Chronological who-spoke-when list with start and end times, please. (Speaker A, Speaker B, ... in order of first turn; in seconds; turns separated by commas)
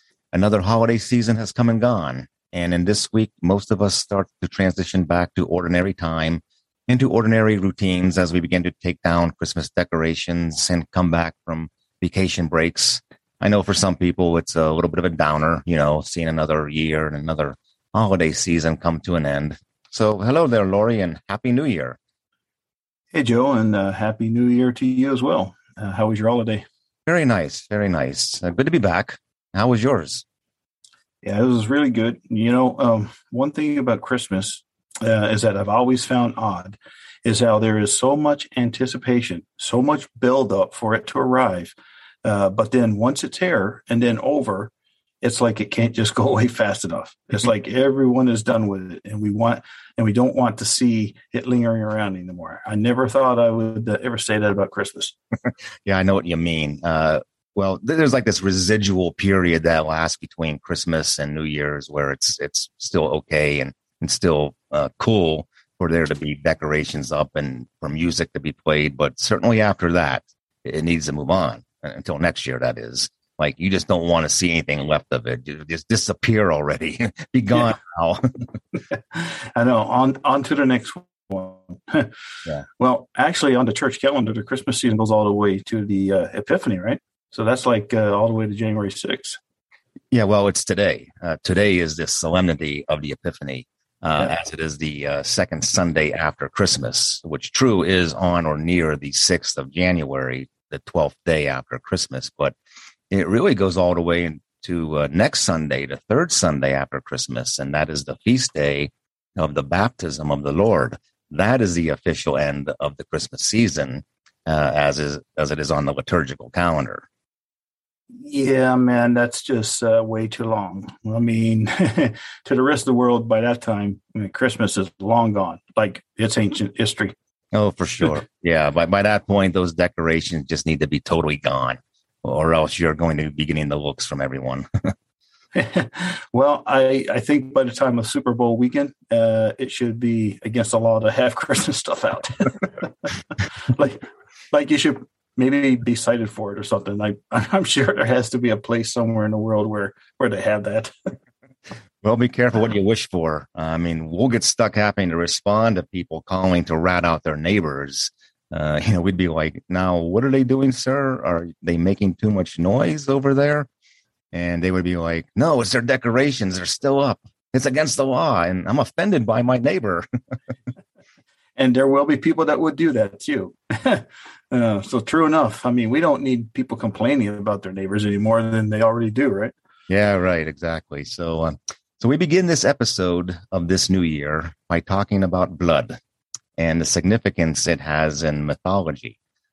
Speaker A: 0.3-22.0, Speaker B: 23.1-26.6, Speaker A: 27.1-30.2, Speaker B: 31.2-44.7, Speaker B: 45.2-55.2, Speaker A: 55.9-78.2, Speaker B: 79.1-82.1, Speaker B: 82.8-89.4, Speaker A: 90.1-102.5, Speaker A: 103.1-117.1, Speaker B: 118.2-127.1, Speaker A: 127.5-134.7, Speaker B: 135.6-143.1, Speaker B: 143.7-151.1, Speaker A: 152.0-163.7, Speaker A: 164.3-170.1, Speaker B: 171.6-179.5, Speaker A: 179.9-186.0, Speaker A: 186.6-189.2